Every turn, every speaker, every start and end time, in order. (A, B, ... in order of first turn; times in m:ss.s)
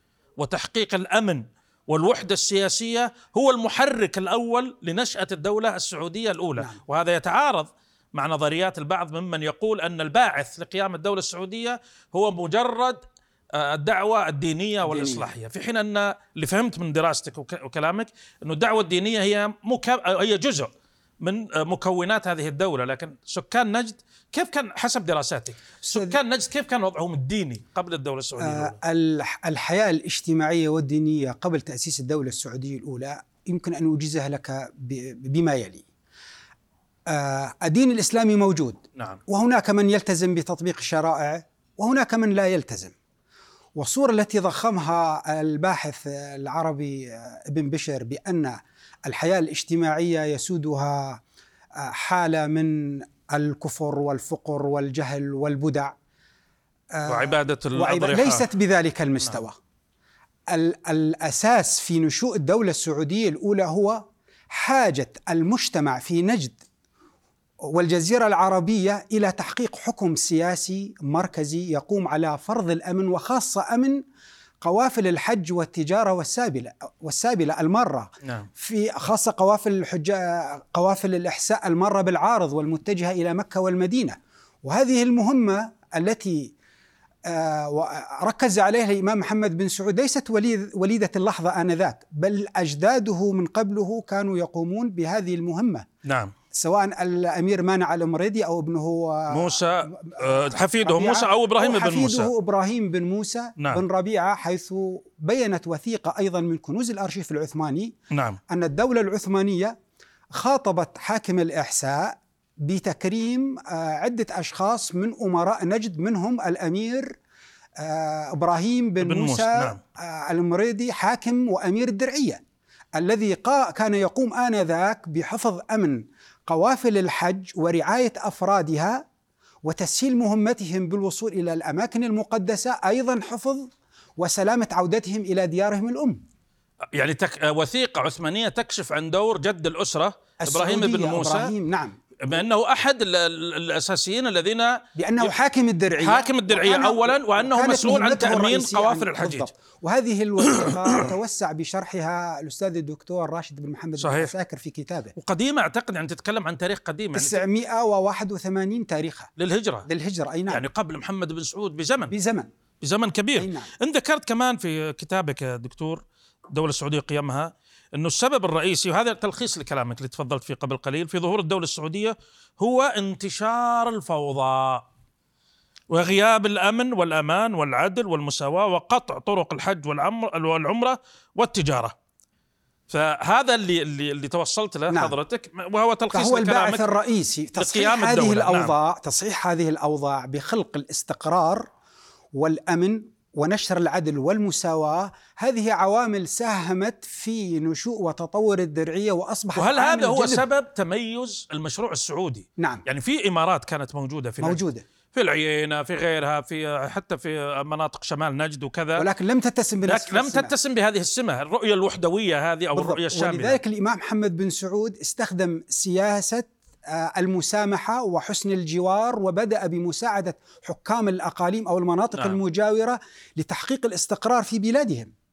0:00.4-0:13.0 A
0:13.5-0:20.7 A
0:14.8-0:15.3 B
0:21.2-0:28.8 A
0:25.9-0:26.2 B
0:28.4-0:35.8 B
0:37.1-0:42.9 B
0:39.0-0:39.2 A
0:43.8-0:51.2 B
0:51.8-0:55.9 B
0:56.9-0:59.6 B
0:57.1-0:58.5 A
1:00.5-1:06.6 B
1:07.6-1:14.0 B
1:14.6-1:26.5 B
1:18.2-1:18.5 A
1:27.2-1:35.8 B
1:36.0-1:36.3 A
1:36.5-1:47.9 B
1:39.3-1:42.3 A
1:43.6-1:43.8 A
1:48.1-1:48.4 A
1:48.5-1:49.8 B
1:50.3-1:57.2 B
1:57.8-2:02.4 B
1:59.0-1:59.8 A
2:03.0-2:09.0 B
2:09.6-2:16.2 B
2:16.9-2:21.5 A
2:20.4-2:22.0 B
2:22.2-2:25.3 A
2:25.0-2:35.1 B
2:26.0-2:29.5 A
2:30.4-2:31.1 A
2:34.0-2:34.3 A
2:35.2-2:37.4 A
2:37.1-2:39.3 B
2:39.4-2:39.9 A
2:39.8-2:40.6 B
2:40.5-2:42.1 A
2:42.1-2:42.5 B
2:42.8-2:54.8 A
2:43.4-2:43.7 B
2:55.9-3:02.0 A
3:02.9-3:06.9 A
3:04.9-3:05.1 B
3:06.1-3:11.7 B
3:07.6-3:08.7 A
3:12.3-3:20.4 B
3:19.5-3:24.6 A
3:22.6-3:22.8 B
3:24.4-3:24.8 B
3:25.1-3:29.1 A
3:29.0-3:30.5 B
3:29.8-3:33.6 A
3:32.7-3:45.1 B
3:42.1-3:42.4 A